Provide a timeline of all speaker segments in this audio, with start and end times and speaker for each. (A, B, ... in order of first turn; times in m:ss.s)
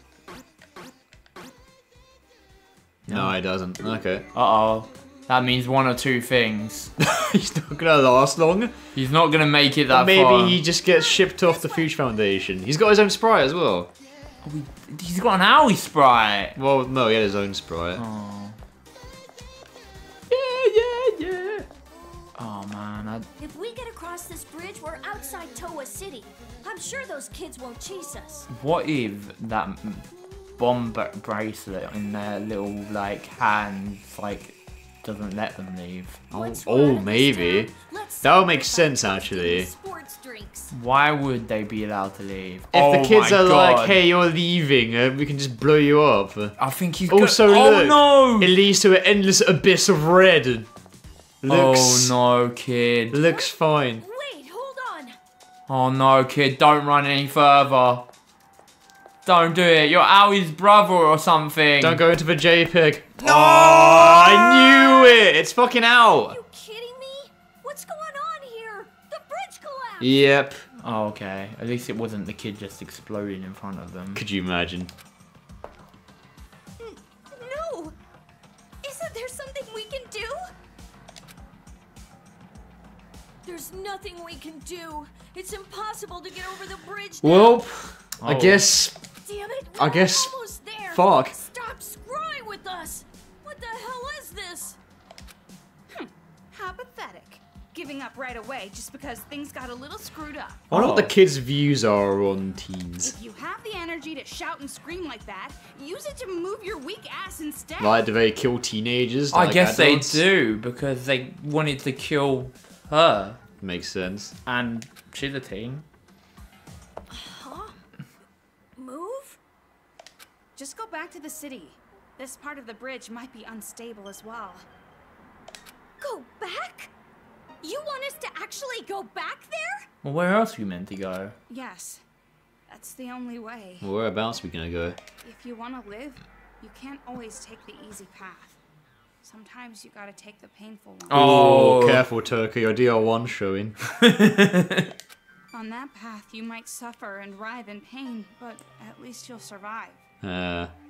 0:03.1-0:03.3 A
0:03.1-0:04.3 B
0:04.3-0:06.9 A
0:07.0-0:08.7 B
0:09.0-0:10.6 A
0:09.9-0:13.9 B
0:14.4-0:16.6 A
0:16.6-0:18.0 B
0:18.0-0:18.6 A
0:20.3-0:21.6 B
0:22.4-0:23.3 A
0:23.4-0:28.5 C
0:28.5-0:36.2 A
0:36.3-0:40.7 C
0:36.3-0:37.7 B
0:38.2-0:39.7 B
0:40.7-0:44.0 A
0:42.7-0:46.5 B
0:46.6-0:48.5 A
0:47.1-0:50.7 B
0:51.4-0:52.1 B
0:51.4-0:53.2 A
0:53.1-0:54.0 B
0:53.2-0:55.2 C
0:55.7-0:58.1 A
0:59.2-1:02.0 A
1:01.8-1:06.4 B
1:03.2-1:05.3 C
1:06.3-1:10.2 C
1:10.0-1:10.6 B
1:10.8-1:14.2 A
1:14.1-1:14.9 B
1:16.8-1:17.9 C
1:18.8-1:20.5 C
1:23.4-1:27.6 C
1:27.2-1:29.0 B
1:28.2-1:28.7 A
1:29.2-1:34.8 C
1:29.8-1:30.4 B
1:30.9-1:31.4 B
1:35.9-1:40.7 D
1:40.7-1:41.1 A
1:40.7-1:43.2 B
1:43.0-1:48.1 D
1:47.8-1:50.2 B
1:49.3-1:53.4 A
1:53.6-1:54.4 B
1:54.5-1:55.8 A
1:57.1-1:57.8 C
1:58.8-1:59.4 C
2:00.6-2:04.6 D
2:06.0-2:06.9 C
2:07.6-2:09.9 C
2:10.0-2:11.4 A
2:11.5-2:12.0 D
2:12.7-2:13.9 D
2:13.8-2:15.0 B
2:15.2-2:18.6 D
2:19.2-2:21.3 D
2:21.1-2:22.0 A
2:21.1-2:23.8 B
2:23.9-2:24.9 A
2:25.5-2:30.0 D
2:30.2-2:30.7 B